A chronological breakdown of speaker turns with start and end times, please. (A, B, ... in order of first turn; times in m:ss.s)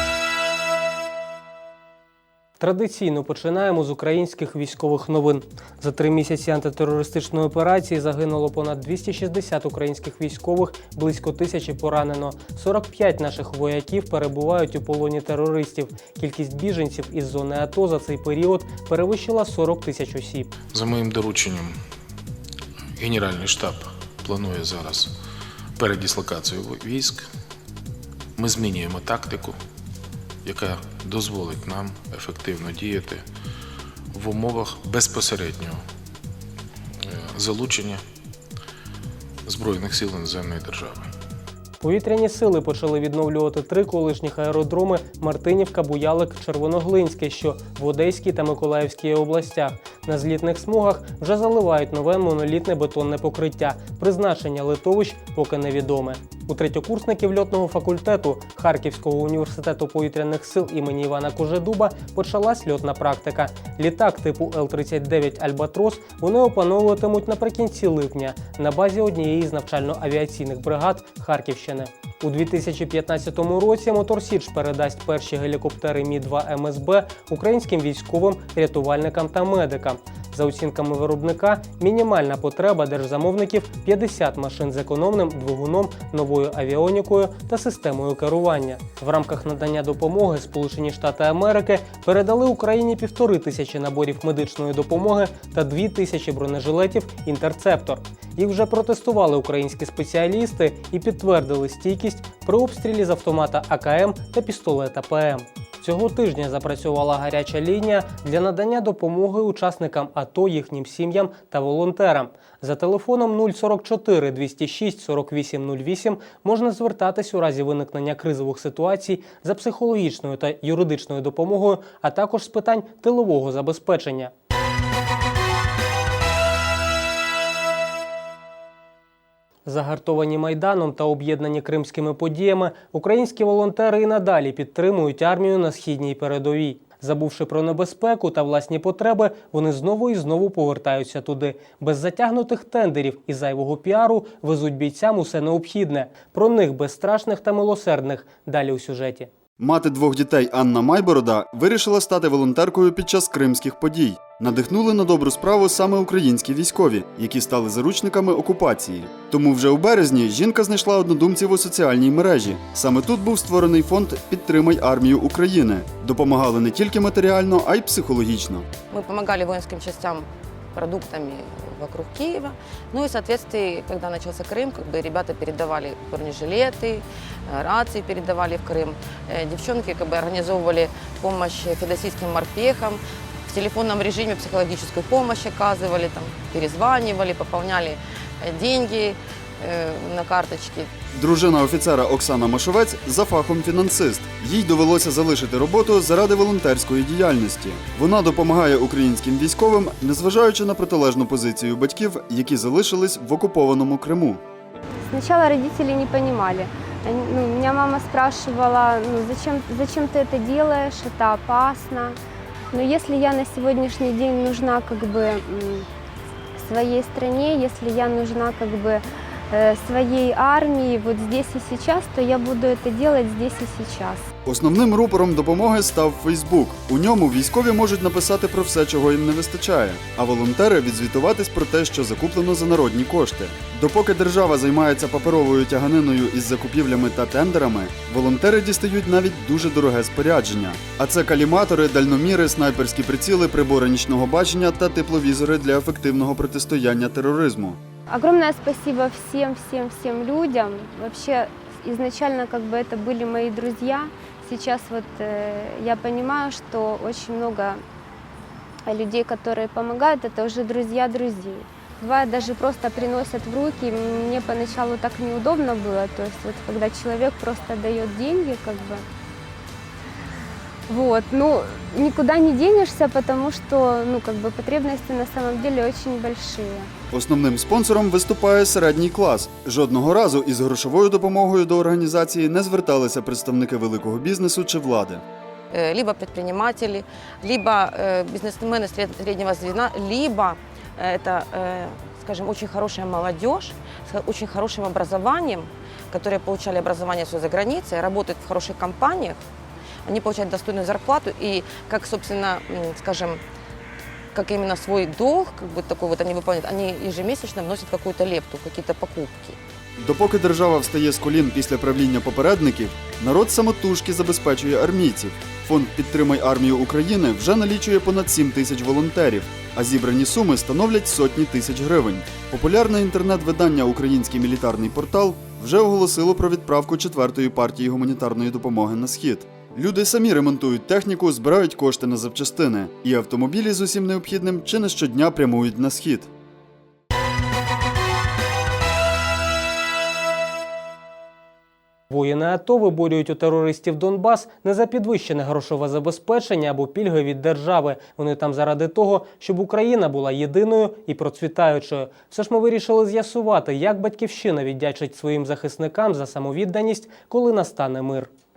0:02.6-0:20.5 A
0:20.7-0:21.8 B
0:23.0-0:25.1 B
0:25.8-0:27.3 B
0:28.4-0:29.6 B
0:30.4-0:33.2 B
0:34.1-0:35.8 B
0:37.1-0:38.0 B
0:39.5-0:41.1 B
0:41.8-2:04.3 A
2:09.7-2:29.3 A
2:29.6-2:48.7 C
2:48.9-3:10.9 D
3:11.1-3:24.4 C
3:25.1-3:32.2 E
3:32.7-3:35.9 E
3:36.6-3:44.3 E
3:44.4-4:07.8 C
4:08.1-4:17.8 E
4:18.9-4:29.0 E
4:30.9-4:36.9 E
4:37.1-4:45.2 C
4:45.7-4:59.4 D
5:00.0-5:03.4 D
5:04.3-5:09.6 D
5:10.0-5:36.3 C
5:42.1-5:58.3 A